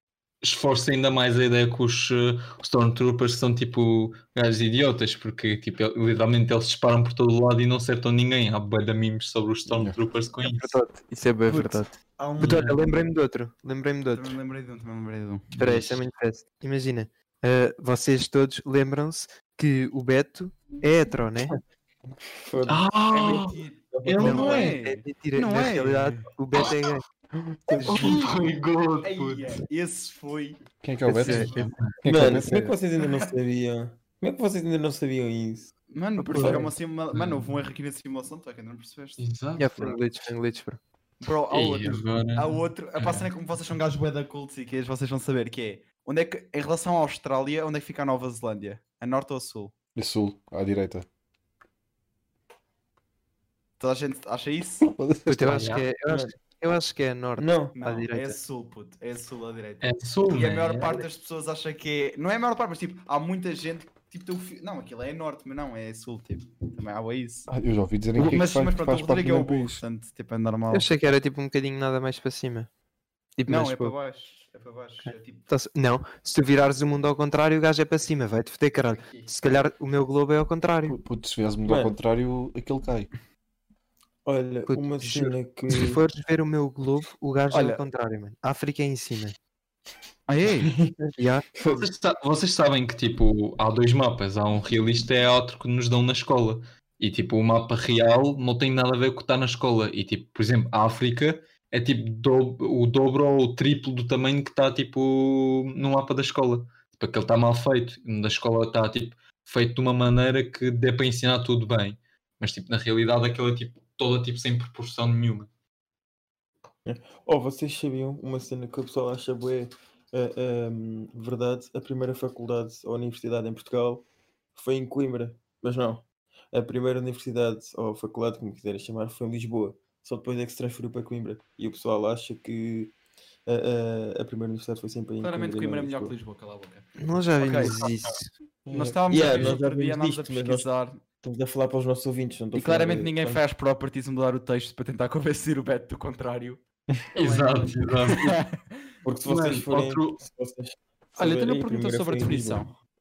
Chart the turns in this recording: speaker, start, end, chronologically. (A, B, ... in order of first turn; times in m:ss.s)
0:00.4-0:10.8 A
0:09.7-0:10.0 B
0:10.4-0:14.4 C
0:11.5-0:12.7 D
0:12.4-0:12.8 A
0:14.1-0:15.5 D
0:15.6-0:16.0 A
0:15.6-0:21.6 C
0:22.4-0:23.3 E
0:22.7-0:24.8 A
0:23.1-0:26.3 D
0:23.9-0:24.5 E
0:24.2-0:27.0 C
0:27.7-0:28.2 B
0:27.7-0:28.3 D
0:27.8-0:29.6 A
0:29.0-0:30.6 D
0:30.8-0:32.6 B
0:31.1-0:31.7 C
0:31.2-0:31.9 A
0:32.0-0:35.7 E
0:32.3-0:32.7 C
0:33.0-0:33.2 D
0:35.9-0:39.2 D
0:36.2-0:36.7 C
0:36.3-0:36.7 E
0:37.1-0:37.5 A
0:39.2-0:40.0 A
0:39.6-0:40.8 C
0:41.2-0:49.7 D
0:41.5-0:43.3 A
0:50.0-0:51.1 B
0:53.8-0:54.9 D
0:54.9-0:55.6 B
0:55.3-0:58.4 C
0:55.5-0:55.9 A
0:56.1-0:56.3 E
0:57.4-0:57.8 E
0:57.8-1:07.5 D
0:59.8-1:01.0 A
1:07.5-1:09.8 B
1:08.2-1:10.9 D
1:10.7-1:12.7 C
1:13.4-1:14.0 C
1:13.5-1:15.5 D
1:15.0-1:21.0 C
1:18.9-1:19.4 D
1:20.9-1:23.1 B
1:21.7-1:22.0 E
1:24.2-1:26.0 E
1:24.7-1:29.4 C
1:27.5-1:27.8 D
1:30.3-1:30.7 D
1:30.6-1:31.9 E
1:31.2-1:31.4 C
1:31.7-1:55.5 A
1:56.8-2:13.0 E
2:13.5-2:16.2 E
2:15.2-2:17.9 D
2:17.0-2:18.3 C
2:17.6-2:17.9 A
2:18.7-2:19.0 B
2:18.7-2:21.0 D
2:19.1-2:20.7 E
2:19.2-2:19.6 A
2:21.2-2:23.4 E
2:22.5-2:26.6 D
2:27.2-2:28.3 A
2:27.2-2:28.7 D
2:29.0-2:32.6 E
2:29.3-2:30.2 A
2:31.2-2:32.7 D